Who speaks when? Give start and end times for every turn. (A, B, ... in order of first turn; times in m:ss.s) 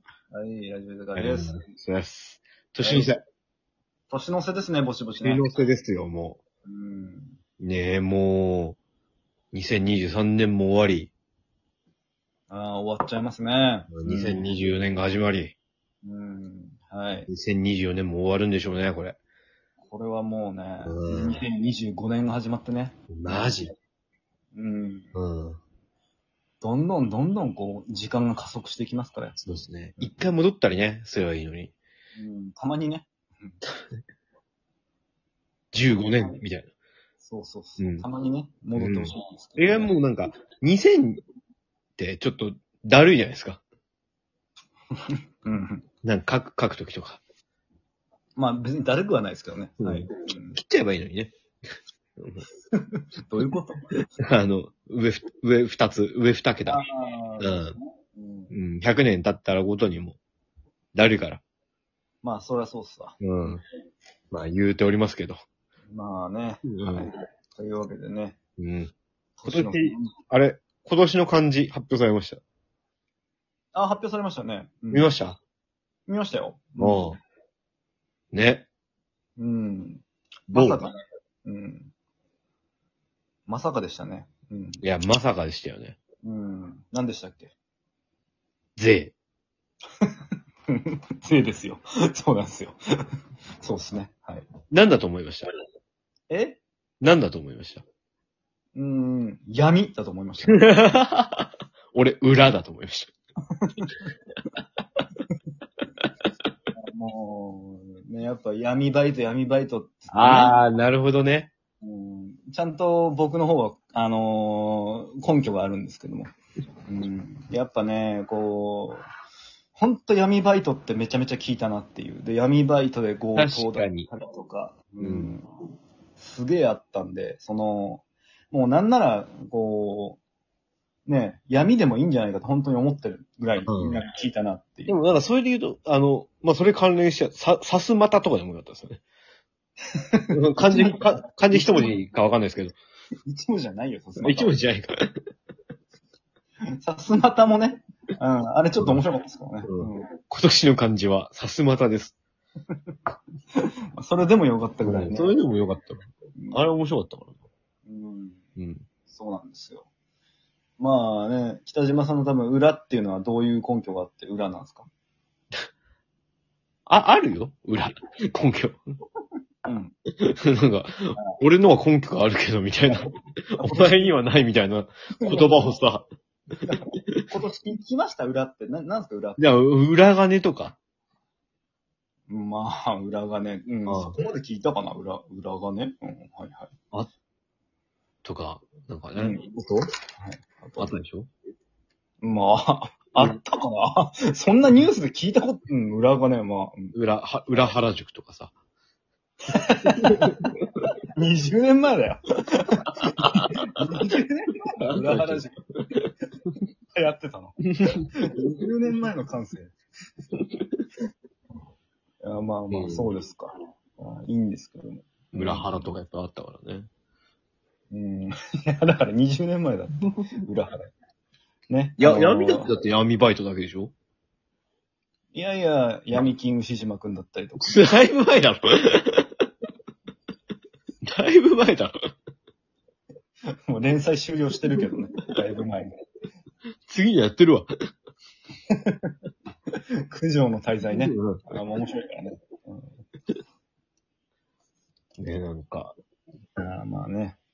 0:00.3-0:01.6 A
0:01.2-0:03.2 B
0:02.8-0:03.2 A
0:04.1-0:05.6 A
0:05.2-0:06.4 B
0:06.6-0:07.4 A
0:07.6-0:08.8 B
0:09.5-0:11.1 B
0:12.5-0:14.5 A
0:13.9-0:15.5 B
0:16.0-0:17.3 A
0:17.3-0:19.2 B
0:19.8-0:23.6 A
0:20.8-0:21.4 B
0:23.1-0:23.7 B
0:24.5-0:25.1 A
0:25.1-0:25.6 B
0:26.6-0:29.4 A
0:29.4-0:31.7 B
0:32.2-0:33.6 A
0:35.7-0:36.7 B
0:37.2-0:39.9 A
0:37.8-0:38.0 B
0:38.7-0:41.2 B
0:42.0-0:43.6 B
0:45.0-0:45.8 A
0:46.0-0:47.2 B
0:48.4-0:50.6 A
0:49.8-0:51.3 B
0:52.2-0:52.4 B
0:52.7-0:53.8 A
0:54.3-0:56.8 B
0:56.6-0:58.5 A
0:57.4-0:57.7 B
0:58.5-1:00.2 B
1:00.9-1:01.4 B
1:02.2-1:03.2 A
1:03.2-1:03.6 B
1:04.3-1:05.4 B
1:05.9-1:08.4 A
1:06.6-1:07.1 B
1:08.6-1:08.9 B
1:09.4-1:10.1 A
1:09.4-1:12.4 B
1:13.7-1:15.1 A
1:14.9-1:15.4 B
1:16.1-1:17.1 A
1:16.8-1:17.2 B
1:18.3-1:18.7 B
1:19.4-1:20.9 A
1:20.5-1:20.8 B
1:21.4-1:21.9 A
1:23.5-1:24.8 A
1:24.8-1:26.0 B
1:26.2-1:27.5 A
1:28.8-1:29.1 B
1:30.7-1:32.8 A
1:33.6-1:34.5 A
1:34.7-1:35.5 B
1:36.3-1:36.6 A
1:37.0-1:37.8 B
1:38.7-1:40.7 A
1:40.5-1:43.1 B
1:43.6-1:44.1 A
1:46.7-1:50.6 A
1:50.1-1:51.5 B
1:51.8-1:56.3 A
1:56.9-1:59.1 A
1:59.7-2:05.5 A
2:03.4-2:04.1 B
2:05.0-2:05.3 B
2:06.2-2:10.2 A
2:11.0-2:15.0 A
2:13.7-2:14.0 B
2:14.9-2:19.0 B
2:19.9-2:21.9 A
2:20.3-2:22.8 B
2:23.2-2:24.5 A
2:24.2-2:25.0 B
2:26.8-2:30.1 A
2:29.6-2:32.1 B
2:33.6-2:35.4 A
2:34.8-2:37.4 B
2:36.4-2:36.6 A
2:37.8-2:38.4 A
2:38.6-2:38.8 B
2:39.1-2:39.8 A
2:40.8-2:44.9 A
2:46.9-2:48.8 B
2:49.6-2:49.9 A
2:50.2-2:56.0 B
2:52.9-2:54.2 A
2:55.2-2:55.8 A
2:56.6-2:59.4 A
2:59.4-3:00.8 B
3:02.3-3:06.7 A
3:03.9-3:04.1 B
3:08.2-3:09.4 B
3:09.2-3:11.0 A
3:10.8-3:11.3 B
3:12.2-3:16.9 A
3:16.9-3:18.5 B
3:19.5-3:20.4 A
3:20.0-3:20.6 B
3:21.2-3:25.6 A
3:24.9-3:26.0 B
3:26.9-3:27.6 A
3:27.7-3:28.1 B
3:28.1-3:29.7 A
3:32.2-3:35.8 A
3:32.7-3:33.1 B
3:35.3-3:36.9 B
3:37.9-3:40.9 A
3:41.7-3:42.7 A
3:42.0-3:43.9 B
3:45.3-3:47.7 A
3:47.6-3:49.3 B
3:51.0-3:51.9 B
3:53.7-3:55.9 A
3:56.9-3:57.7 B
3:58.7-3:59.1 A
4:00.0-4:02.9 A
4:00.9-4:01.5 B
4:05.2-4:06.0 B
4:06.6-4:07.4 A